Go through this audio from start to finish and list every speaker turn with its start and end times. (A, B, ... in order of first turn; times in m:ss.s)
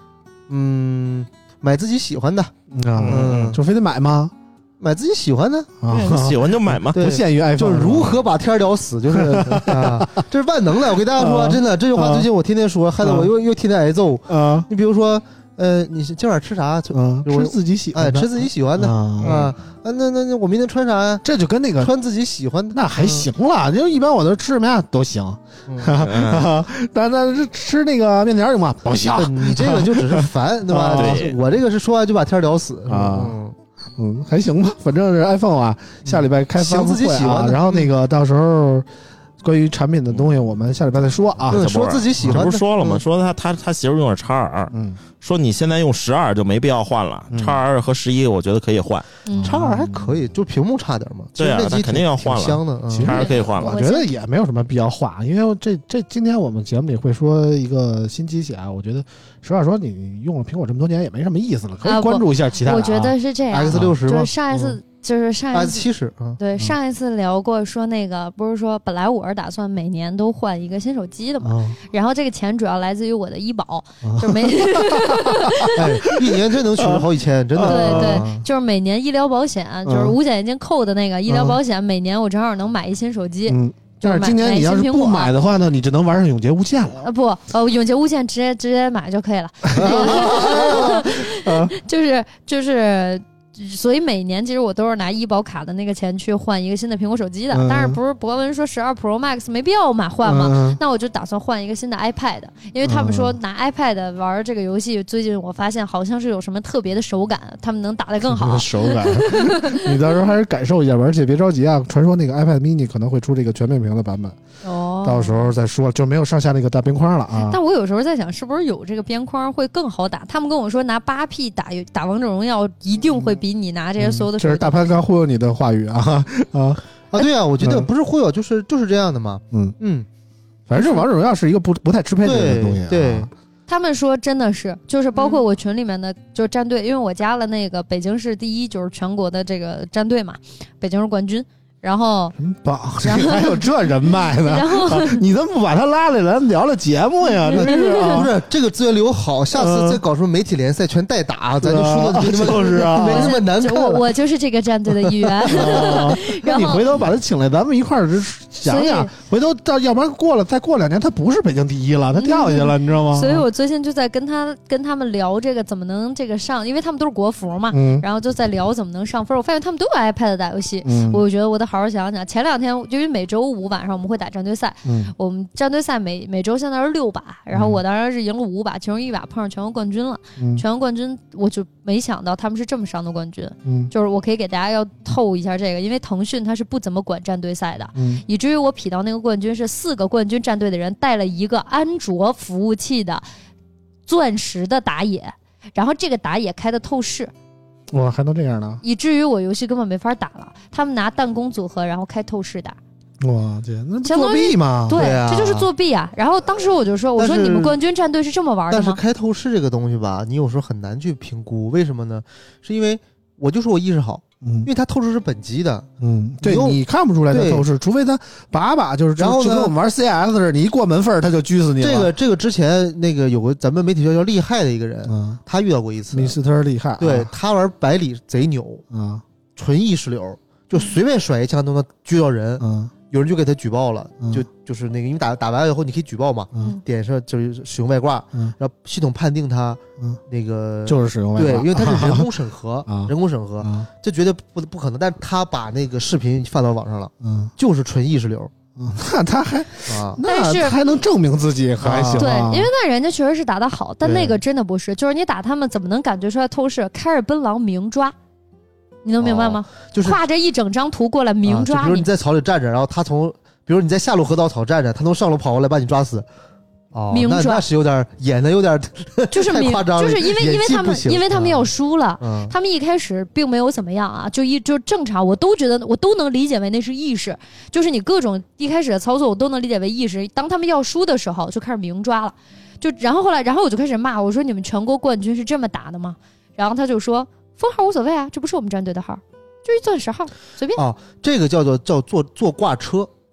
0:00.5-0:02.5 A
0:02.7-0:04.3 B
0:03.0-0:03.6 C
0:03.1-0:03.6 A
0:04.8-0:05.7 A
0:05.8-0:08.2 B
0:05.9-0:07.2 C
0:06.9-0:21.2 A
0:09.1-0:10.2 B
0:11.1-0:12.3 B
0:13.0-0:13.3 B
0:14.3-0:14.7 B
0:16.9-0:19.5 B
0:21.2-0:21.9 B
0:21.8-0:23.3 A
0:22.7-0:31.3 B
0:25.7-0:26.0 A
0:26.0-0:26.5 C
0:29.2-0:33.6 A
0:30.9-0:31.4 C
0:32.9-0:33.4 B
0:34.0-0:38.9 B
0:36.0-0:37.9 A
0:39.4-0:41.7 B
0:41.5-0:49.1 C
0:41.5-0:43.0 A
0:44.7-0:45.0 B
0:47.3-0:47.6 B
0:49.2-0:49.5 D
0:49.4-0:50.2 B
0:49.4-0:53.2 A
0:51.4-0:53.8 C
0:52.9-1:03.2 B
0:53.1-0:54.1 D
1:01.8-1:05.8 D
1:03.5-1:04.7 A
1:03.7-1:04.0 B
1:05.5-1:06.4 A
1:06.4-1:15.8 D
1:11.4-1:11.8 B
1:14.0-1:18.2 B
1:15.7-1:18.4 A
1:17.6-1:25.3 D
1:19.8-1:20.2 B
1:21.3-1:21.6 B
1:23.5-1:27.0 B
1:27.0-1:49.9 D
1:29.7-1:31.7 B
1:29.8-1:30.7 A
1:37.5-1:38.0 B
1:40.2-1:40.8 B
1:42.8-1:43.4 B
1:48.2-1:54.4 B
1:54.6-1:55.5 D
1:55.0-1:57.6 B
1:57.4-2:05.0 D
2:04.0-2:06.8 B
2:07.1-2:10.1 A
2:07.6-2:07.9 B
2:10.7-2:13.3 B
2:12.2-2:13.3 A
2:13.7-2:22.4 D
2:22.4-2:28.3 B
2:23.0-2:25.2 D
2:27.5-2:34.1 A
2:27.6-2:28.2 D
2:29.5-2:30.0 B
2:31.6-2:33.4 B
2:33.0-2:36.9 D
2:35.4-2:43.4 B
2:35.5-2:36.0 A
2:38.6-2:39.1 D
2:42.2-3:13.2 D
2:47.7-2:48.0 B
2:50.8-2:51.2 B
2:54.8-2:55.1 B
2:57.5-2:57.8 B
3:00.4-3:00.6 B
3:03.6-3:03.9 B
3:08.0-3:08.2 B
3:14.0-3:17.3 D
3:17.9-3:18.8 B
3:18.8-3:22.8 D
3:23.2-3:25.0 B
3:24.0-3:29.0 D
3:24.9-3:25.7 A
3:27.2-3:27.8 A
3:28.7-3:35.9 A
3:34.4-3:34.7 B
3:36.0-3:42.1 B
3:36.4-3:36.8 A
3:37.3-3:37.6 A
3:39.2-3:39.7 A
3:41.8-3:46.4 A
3:45.0-3:45.4 B
3:46.1-3:47.3 B
3:47.0-3:48.8 A
3:48.9-3:49.2 B
3:49.6-4:08.5 A
3:52.6-3:52.9 B
4:00.8-4:02.3 B
4:02.8-4:03.9 B
4:07.2-4:07.5 B
4:08.8-4:12.7 B
4:09.9-4:10.2 A
4:10.2-4:10.8 D
4:11.8-4:12.3 A
4:12.2-4:18.1 D
4:14.0-4:14.4 A
4:19.0-4:22.1 D
4:19.2-4:20.2 A
4:21.4-4:26.2 A
4:26.9-4:32.5 A
4:27.1-4:27.6 D
4:29.3-4:50.8 D
4:50.7-4:53.1 A